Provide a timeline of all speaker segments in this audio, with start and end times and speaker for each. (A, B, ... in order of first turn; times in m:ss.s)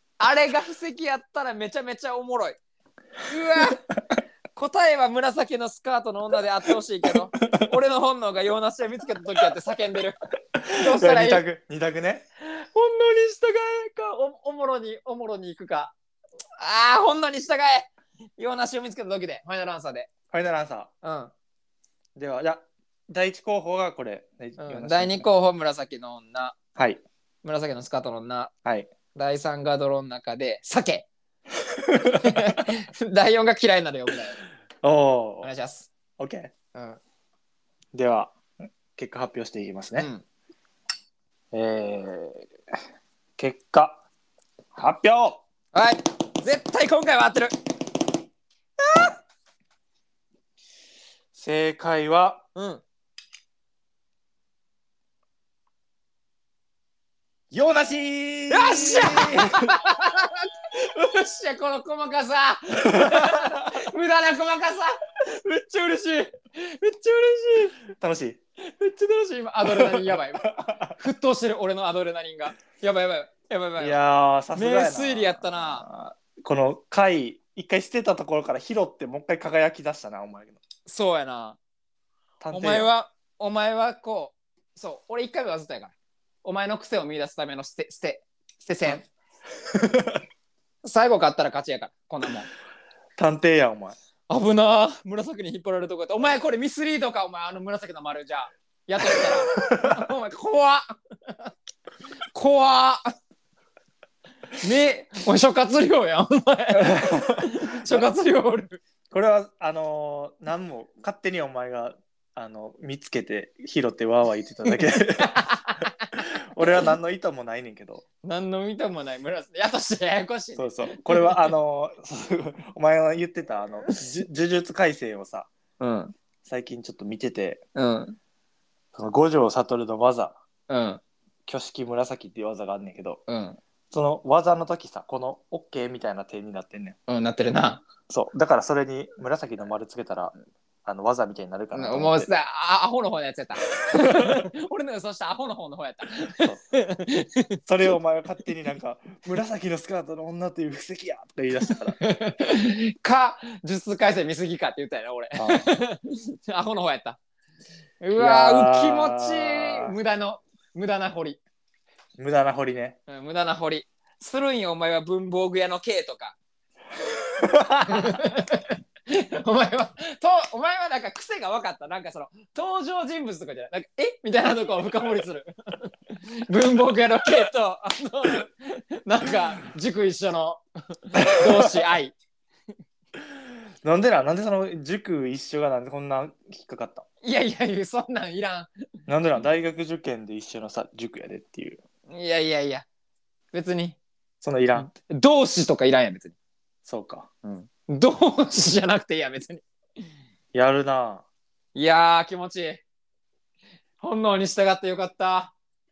0:00.2-0:02.6 A
0:03.2-0:03.8 A
0:04.5-0:11.4 A
0:10.6-0:12.2 B
0:12.4-0:15.9 A
0:16.6-0:20.1 A
0:20.3-0:20.9 B
0:21.0-0:21.3 A
0:22.2-0:25.3 B
0:24.6-0:26.6 A
0:26.8-0:27.0 B
0:27.4-0:28.5 A
0:29.1-0:31.1 A
0:31.8-0:32.4 B
0:32.1-0:34.4 A
0:34.8-0:35.5 B
0:35.4-0:35.9 A
0:36.2-0:36.5 B
0:36.7-0:37.0 A
0:37.9-0:38.3 B
0:38.9-0:40.1 B
0:40.0-0:40.2 A
0:41.5-0:42.5 B
0:43.4-0:44.0 B
0:44.7-0:45.4 B
0:45.7-0:47.5 A
0:48.8-0:49.1 A
0:51.3-0:52.4 B
0:52.5-0:52.8 A
0:57.5-0:59.7 B
0:58.5-1:07.8 A
1:03.0-1:03.6 B
1:08.0-1:08.4 B
1:08.6-1:14.0 A
1:09.6-1:10.9 B
1:13.8-1:20.6 B
1:14.5-1:15.8 A
1:20.8-1:21.6 A
1:22.4-1:22.9 B
1:22.5-1:29.0 A
1:29.7-1:30.2 B
1:30.8-1:32.5 A
1:33.2-1:34.0 B
1:34.3-1:41.5 A
1:39.1-1:40.0 B
1:42.3-1:43.0 A
1:44.6-1:48.8 A
1:46.8-1:48.1 B
1:49.1-1:58.0 B
1:55.2-1:56.1 A
1:58.2-2:01.5 A
2:00.6-2:05.5 B
2:05.8-2:06.1 A
2:06.4-2:07.6 B
2:07.7-2:08.2 A
2:08.9-2:10.4 B
2:10.7-2:11.0 A
2:11.5-2:13.2 B
2:13.3-2:13.6 A
2:13.9-2:17.0 B
2:17.1-2:17.8 A
2:18.1-2:20.3 B
2:20.8-2:22.3 B
2:21.7-2:27.6 A
2:24.0-2:24.4 B
2:27.7-2:32.0 B
2:31.7-2:37.2 A
2:35.4-2:35.7 B
2:38.0-2:41.4 A
2:38.2-2:39.9 B
2:42.2-2:43.0 B
2:43.1-2:46.4 A
2:47.2-2:48.2 B
2:47.9-3:02.1 A
3:01.2-3:01.9 B
3:03.2-3:07.0 B
3:07.2-3:08.7 A
3:09.1-3:11.8 B
3:12.1-3:12.9 A
3:13.5-3:14.0 A
3:14.4-3:14.9 B
3:14.7-3:16.3 A
3:16.8-3:17.3 B
3:17.4-3:19.6 A
3:20.5-3:21.2 B
3:21.7-3:22.8 A
3:24.0-3:25.5 A